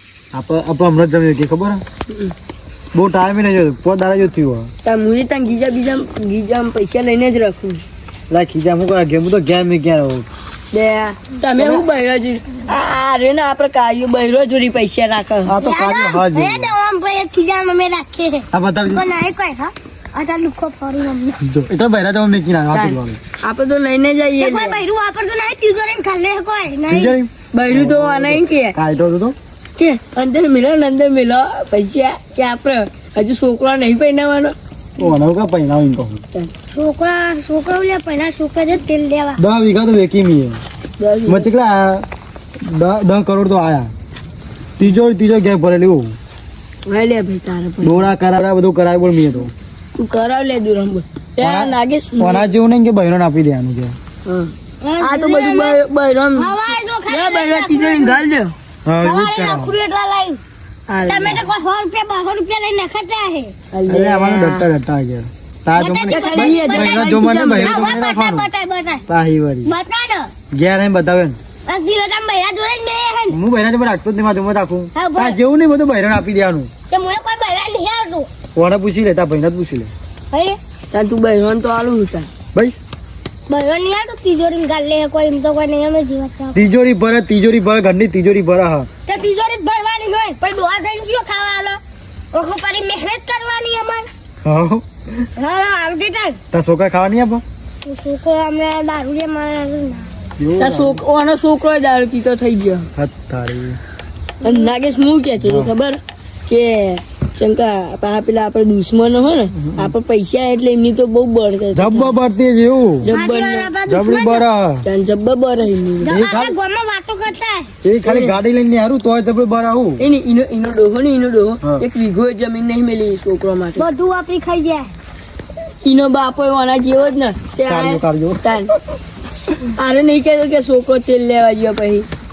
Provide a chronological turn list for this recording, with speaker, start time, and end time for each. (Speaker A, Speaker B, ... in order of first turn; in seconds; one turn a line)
Speaker A: 0.3-1.8
Speaker A: 2.9-4.7
Speaker B: 4.8-7.8
Speaker A: 8.3-10.3
Speaker B: 10.7-15.5
Speaker A: 11.6-11.8
Speaker A: 15.4-16.7
Speaker C: 15.6-21.4
Speaker A: 18.5-19.1
Speaker A: 21.4-23.2
Speaker B: 23.4-24.8
Speaker C: 24.4-27.1
Speaker A: 26.9-29.4
Speaker B: 27.5-28.7
Speaker B: 29.8-34.5
Speaker A: 35.0-36.2
Speaker C: 36.7-39.4
Speaker A: 39.4-40.6
Speaker B: 41.0-41.5
Speaker A: 41.3-42.0
Speaker A: 42.6-43.9
Speaker A: 44.8-46.1
Speaker B: 46.9-48.1
Speaker A: 47.8-49.5
Speaker B: 49.9-52.5
Speaker A: 51.4-54.0
Speaker B: 54.2-58.5
Speaker C: 54.8-55.8
Speaker C: 56.4-58.2
Speaker A: 58.8-59.7
Speaker C: 59.0-60.4
Speaker B: 60.9-61.5
Speaker C: 61.0-63.5
Speaker B: 63.7-64.7
Speaker A: 63.9-68.5
Speaker C: 65.8-69.0
Speaker B: 66.1-67.9
Speaker A: 69.1-69.7
Speaker C: 69.6-70.3
Speaker A: 70.5-71.4
Speaker C: 71.7-73.4
Speaker A: 73.3-76.7
Speaker C: 74.9-75.4
Speaker C: 76.9-78.3
Speaker A: 78.5-79.9
Speaker C: 80.3-80.6
Speaker B: 80.9-82.3
Speaker C: 83.5-86.7
Speaker A: 86.5-88.9
Speaker C: 89.0-91.8
Speaker C: 92.3-94.1
Speaker A: 94.4-95.2
Speaker C: 95.4-96.4
Speaker A: 96.5-97.4
Speaker C: 97.8-100.1
Speaker A: 100.4-101.0
Speaker B: 100.6-102.9
Speaker A: 103.0-103.8
Speaker C: 104.4-104.7
Speaker B: 104.4-112.2
Speaker A: 105.4-105.7
Speaker A: 109.6-109.9
Speaker A: 111.7-113.1
Speaker B: 113.0-113.7
Speaker C: 113.1-114.5
Speaker A: 113.8-114.8
Speaker B: 114.8-116.1
Speaker A: 116.0-116.5
Speaker C: 116.0-117.7
Speaker A: 117.8-120.0
Speaker B: 118.0-118.3
Speaker B: 120.0-123.9
Speaker C: 123.8-124.9
Speaker B: 125.8-128.7
Speaker A: 127.7-128.4
Speaker B: 129.6-132.1